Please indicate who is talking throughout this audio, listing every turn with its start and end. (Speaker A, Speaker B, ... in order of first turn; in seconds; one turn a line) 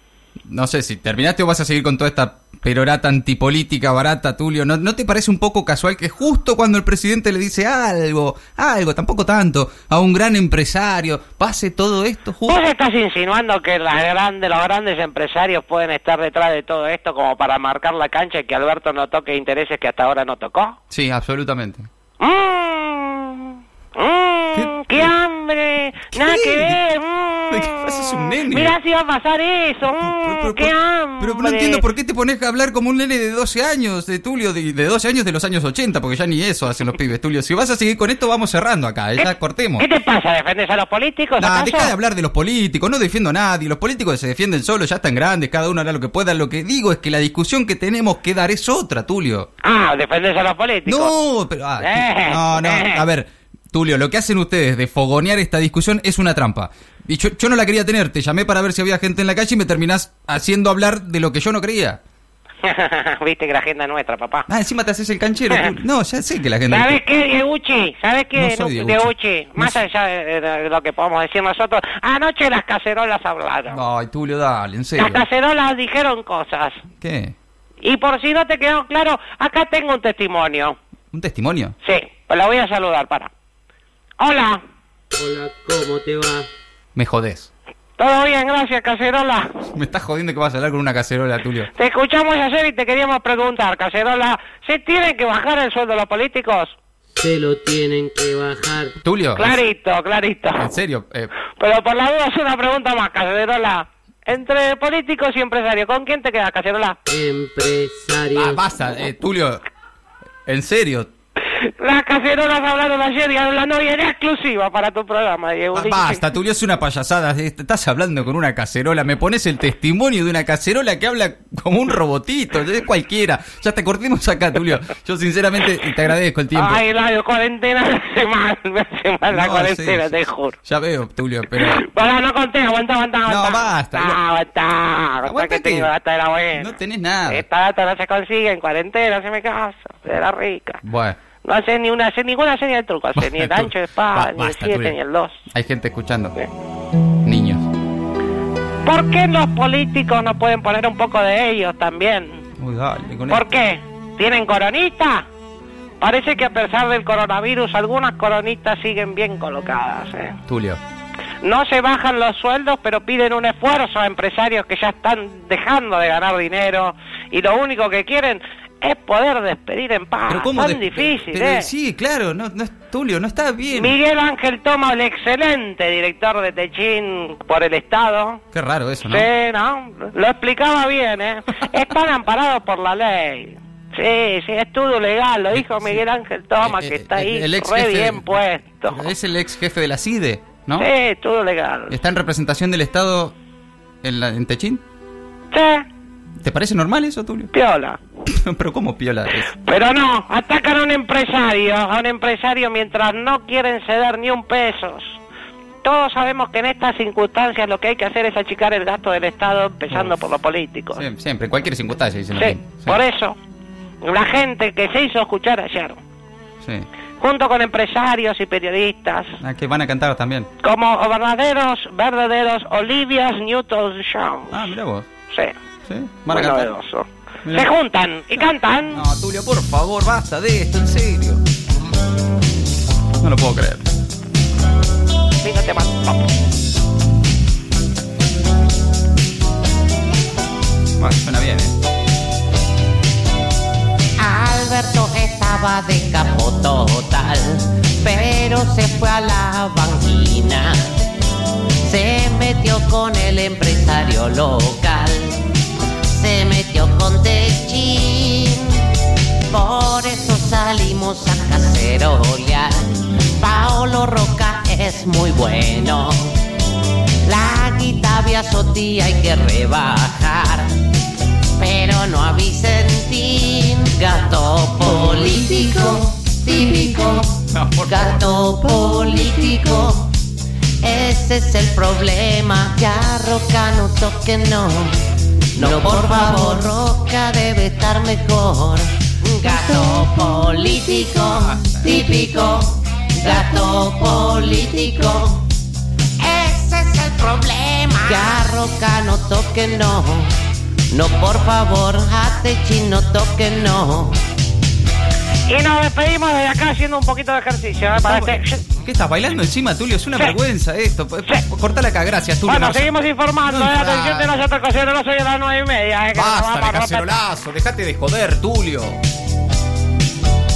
Speaker A: 0.5-12.6
Speaker B: 12.5-20.8
Speaker A: 20.9-21.9
Speaker B: 22.2-31.8
Speaker A: 24.5-25.1
Speaker A: 26.1-26.8
Speaker A: 27.5-28.8
Speaker A: 30.0-39.8
Speaker B: 39.2-41.9
Speaker A: 41.4-49.5
Speaker B: 49.6-51.1
Speaker A: 50.9-62.0
Speaker B: 51.8-53.0
Speaker B: 62.6-64.5
Speaker A: 64.5-67.0
Speaker B: 66.7-73.8
Speaker A: 68.3-69.8
Speaker A: 73.7-75.2
Speaker B: 75.0-76.8
Speaker A: 77.0-77.3
Speaker B: 77.8-80.8
Speaker A: 81.1-81.7
Speaker B: 81.8-83.3
Speaker B: 84.2-84.6
Speaker C: 85.1-86.5
Speaker A: 86.9-87.5
Speaker B: 88.0-89.6
Speaker A: 89.7-91.7
Speaker B: 91.7-96.7
Speaker C: 97.2-98.9
Speaker A: 99.0-99.6
Speaker B: 99.3-100.7
Speaker A: 100.6-101.3
Speaker B: 101.5-107.0
Speaker C: 107.0-108.6
Speaker A: 108.3-109.6
Speaker A: 110.5-111.1
Speaker B: 111.5-116.2
Speaker A: 115.7-126.8
Speaker B: 126.5-130.5
Speaker A: 129.3-131.8
Speaker B: 131.6-136.7
Speaker A: 133.2-134.2
Speaker A: 135.2-135.9
Speaker A: 136.5-137.4
Speaker B: 137.3-140.8
Speaker A: 140.8-141.2
Speaker B: 141.4-145.4
Speaker A: 143.2-145.0
Speaker A: 145.5-146.3
Speaker A: 147.2-147.7
Speaker B: 148.8-152.4
Speaker A: 152.6-153.4
Speaker B: 153.3-155.3
Speaker B: 156.0-160.4
Speaker A: 160.5-160.8
Speaker B: 161.4-171.7
Speaker A: 170.3-173.9
Speaker B: 173.7-178.4
Speaker A: 178.5-179.3
Speaker B: 179.1-189.1
Speaker A: 185.5-186.0
Speaker A: 186.6-188.3
Speaker A: 188.9-190.9
Speaker B: 190.8-191.9
Speaker A: 191.9-193.3
Speaker A: 194.0-194.8
Speaker B: 195.5-195.8
Speaker A: 196.4-197.5
Speaker B: 197.5-198.0
Speaker A: 198.3-199.5
Speaker B: 199.6-205.2
Speaker B: 205.8-211.0
Speaker A: 210.9-213.0
Speaker B: 212.3-213.4
Speaker B: 214.0-216.0
Speaker A: 216.6-216.9
Speaker B: 217.2-219.3
Speaker A: 219.4-220.5
Speaker B: 220.6-224.7
Speaker A: 224.5-225.1
Speaker B: 225.3-225.5
Speaker A: 225.8-226.7
Speaker B: 226.3-229.0
Speaker A: 227.4-227.7
Speaker A: 228.9-231.4
Speaker A: 233.2-233.8
Speaker B: 235.4-236.2
Speaker A: 241.0-241.8
Speaker D: 244.2-250.8
Speaker D: 251.8-255.4
Speaker D: 256.1-258.9
Speaker D: 259.5-266.4
Speaker D: 267.2-270.7
Speaker D: 271.6-280.1
Speaker A: 277.5-278.3
Speaker D: 280.8-285.0
Speaker D: 285.5-295.5
Speaker A: 291.5-291.9
Speaker D: 296.2-300.3
Speaker D: 300.9-304.1
Speaker B: 305.5-308.6
Speaker A: 308.0-312.9
Speaker B: 312.4-317.1
Speaker A: 313.4-314.3
Speaker A: 316.1-319.0